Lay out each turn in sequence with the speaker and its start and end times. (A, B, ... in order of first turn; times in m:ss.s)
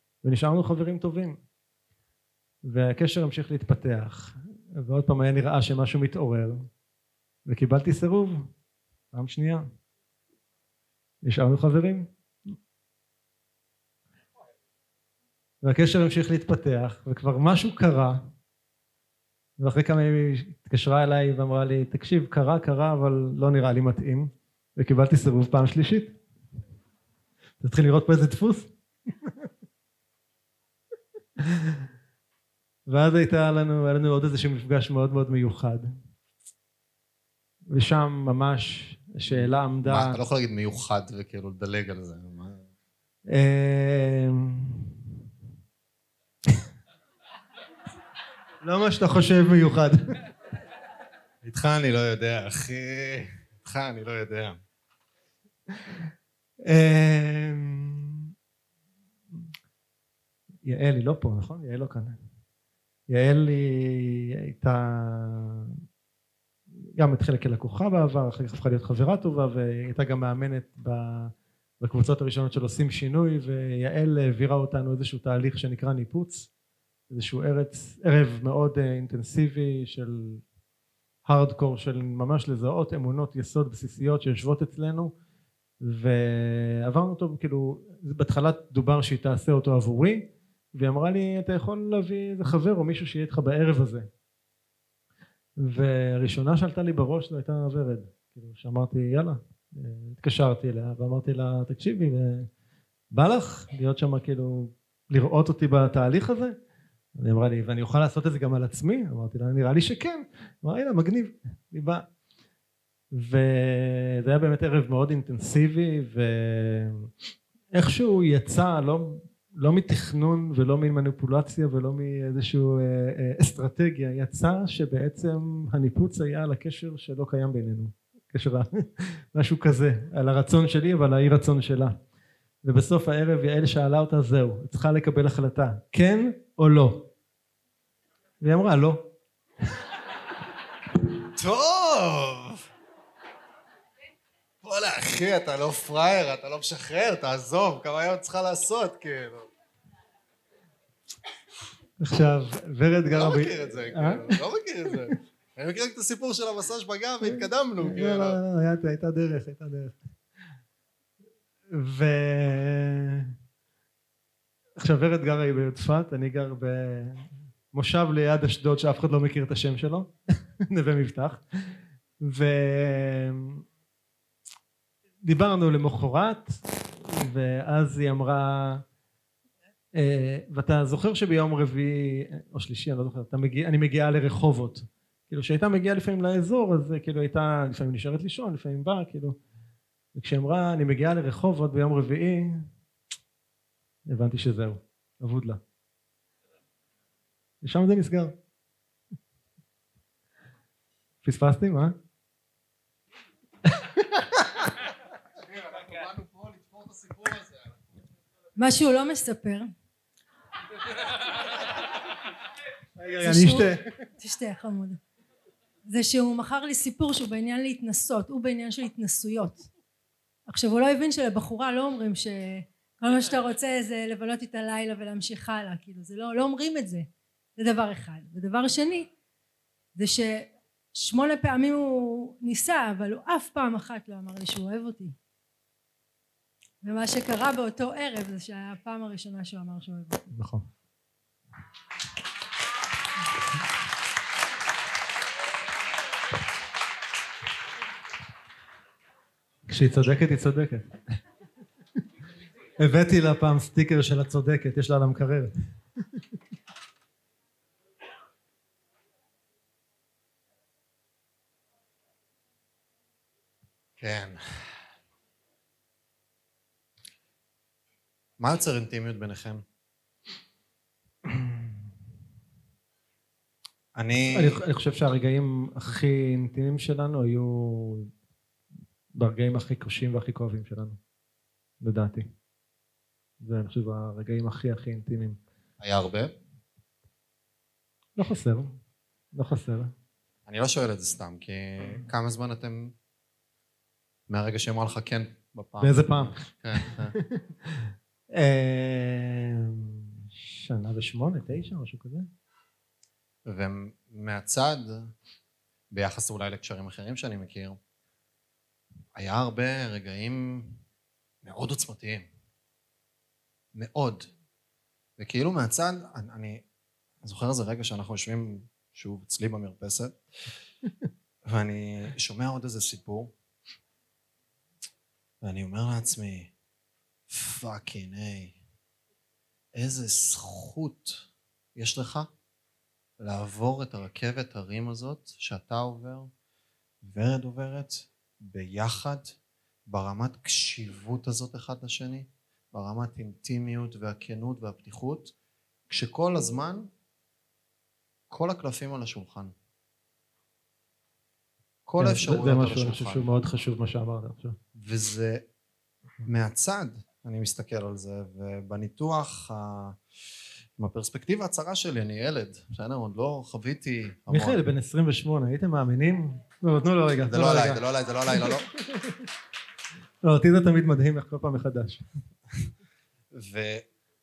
0:00.2-0:01.4 A
0:02.6-0:06.6 A
0:07.4-0:08.5 A
0:09.1-0:09.6 A
0:11.2-0:12.1 A
0:15.6-0:18.3 A
0:19.6-0:26.2 A
0:27.6-0:28.7 A
0:31.5-0:31.8 A
0:32.9-0:35.9 A
0:37.7-0:40.2 A
0:39.3-0:42.6 B
0:43.3-0:44.9 A
0:48.6-0:50.0 A
0:51.4-0:54.6 B
0:56.6-0:58.3 A
1:00.6-1:02.2 A
1:03.1-1:05.7 A
1:07.0-1:16.5 A
1:17.1-1:20.4 A
1:21.2-1:25.1 A
1:25.8-1:34.1 A
1:35.6-1:42.5 A
1:43.1-1:46.6 A
1:47.2-1:52.1 A
1:53.1-1:57.1 A
1:57.7-2:12.0 A
2:12.6-2:17.1 A
2:18.4-2:19.1 A
2:21.4-2:22.6 B
2:24.6-2:29.5 B
2:32.0-2:34.4 A
2:33.1-2:38.4 B
2:37.2-2:40.0 A
2:41.7-2:43.3 A
2:44.8-2:50.1 A
2:50.6-2:51.4 A
2:52.2-2:53.6 A
2:55.2-2:58.8 A
2:59.9-3:09.4 A
3:10.1-3:12.7 A
3:14.1-3:15.6 A
3:17.6-3:18.3 A
3:21.2-3:21.9 A
3:23.8-3:24.4 A
3:25.7-3:27.4 B
3:28.6-3:29.7 C
3:33.0-3:33.9 A
3:33.2-3:33.7 C
3:34.2-3:35.0 C
3:35.8-3:39.7 C
3:40.4-3:49.1 C
3:49.9-3:55.2 C
3:56.8-4:00.2 C
4:00.3-4:00.6 A
4:09.7-4:11.0 A
4:12.8-4:15.5 A
4:24.0-4:24.8 B
4:28.4-4:29.6 B
4:31.3-4:31.6 A
4:33.9-4:34.6 B
4:34.3-4:38.1 A
4:39.1-4:41.0 A
4:41.8-4:42.3 A
4:43.4-4:45.4 A
4:45.8-4:46.3 B
4:48.2-4:48.8 A
4:49.3-4:49.9 A
4:50.5-4:52.9 B
4:54.3-4:57.1 B
4:55.8-5:02.3 A
5:03.4-5:05.1 B
5:05.9-5:07.8 B
5:09.1-5:10.8 B
5:11.4-5:12.3 B
5:13.7-5:14.3 B
5:15.2-5:16.6 B
5:17.2-5:20.1 B
5:21.4-5:23.3 B
5:25.4-5:26.5 B
5:27.3-5:28.6 B
5:29.7-5:32.3 B
5:33.2-5:36.3 B
5:37.0-5:39.3 B
5:39.9-5:45.3 B
5:45.9-5:46.9 B
5:48.3-5:49.5 B
5:51.8-5:53.2 B
5:52.0-5:54.6 A
5:54.8-5:55.4 B
5:56.2-6:00.0 B
6:00.8-6:04.6 B
6:04.3-6:07.8 A
6:07.3-6:08.7 B
6:08.9-6:09.2 A
6:10.2-6:12.0 A
6:13.3-6:13.8 B